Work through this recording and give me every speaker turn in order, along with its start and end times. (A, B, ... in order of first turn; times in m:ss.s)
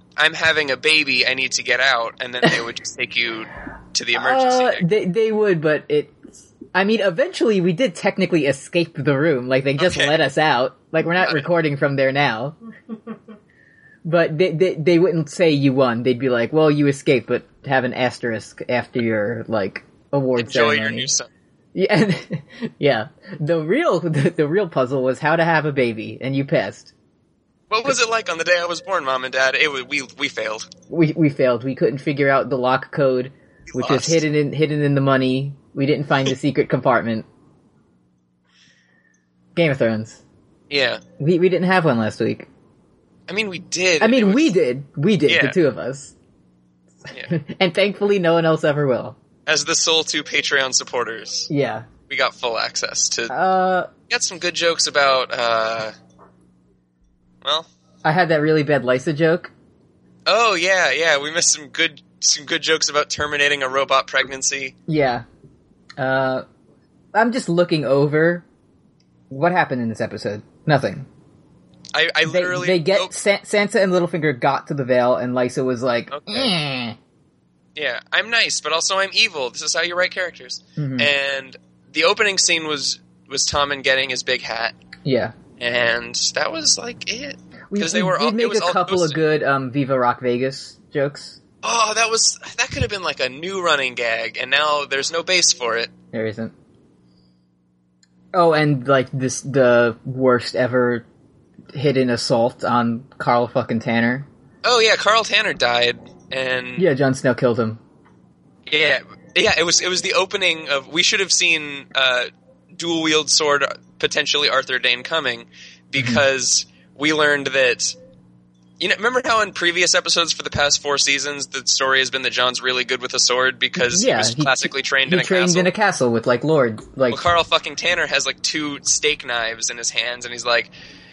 0:00.2-0:04.9 A
0:04.2-0:12.6 B
0:09.8-0:10.2 A
0:14.0-0:21.1 B
0:20.4-0:21.3 A
0:21.7-0:26.9 B
0:27.7-0:30.7 A
0:30.9-0:37.2 B
0:33.7-0:34.2 A
0:39.6-0:40.2 B
0:40.7-0:41.0 A
0:41.2-0:42.5 B
0:43.3-0:44.5 A
0:44.0-0:46.1 B
0:45.3-0:45.6 A
0:47.3-0:49.2 B
0:49.5-0:51.5 A
0:51.5-0:51.9 B
0:52.1-0:53.3 A
0:53.3-0:53.9 B
0:54.1-0:55.9 A
0:57.4-0:57.7 A
0:58.0-0:59.5 B
1:00.3-1:04.8 A
1:04.9-1:05.2 B
1:06.0-1:06.4 B
1:07.1-1:08.4 B
1:09.3-1:11.1 B
1:11.9-1:13.1 A
1:12.2-1:17.0 B
1:16.1-1:16.5 A
1:17.8-1:24.8 A
1:20.8-1:21.1 B
1:25.0-1:25.3 B
1:25.6-1:29.2 A
1:27.7-1:31.4 B
1:31.6-1:35.9 A
1:36.1-1:36.5 B
1:38.3-1:41.0 B
1:41.7-1:44.3 B
1:44.6-1:46.9 A
1:46.8-1:47.8 B
1:48.7-1:58.0 A
1:58.8-2:05.7 A
2:03.8-2:07.2 B
2:07.1-2:10.7 A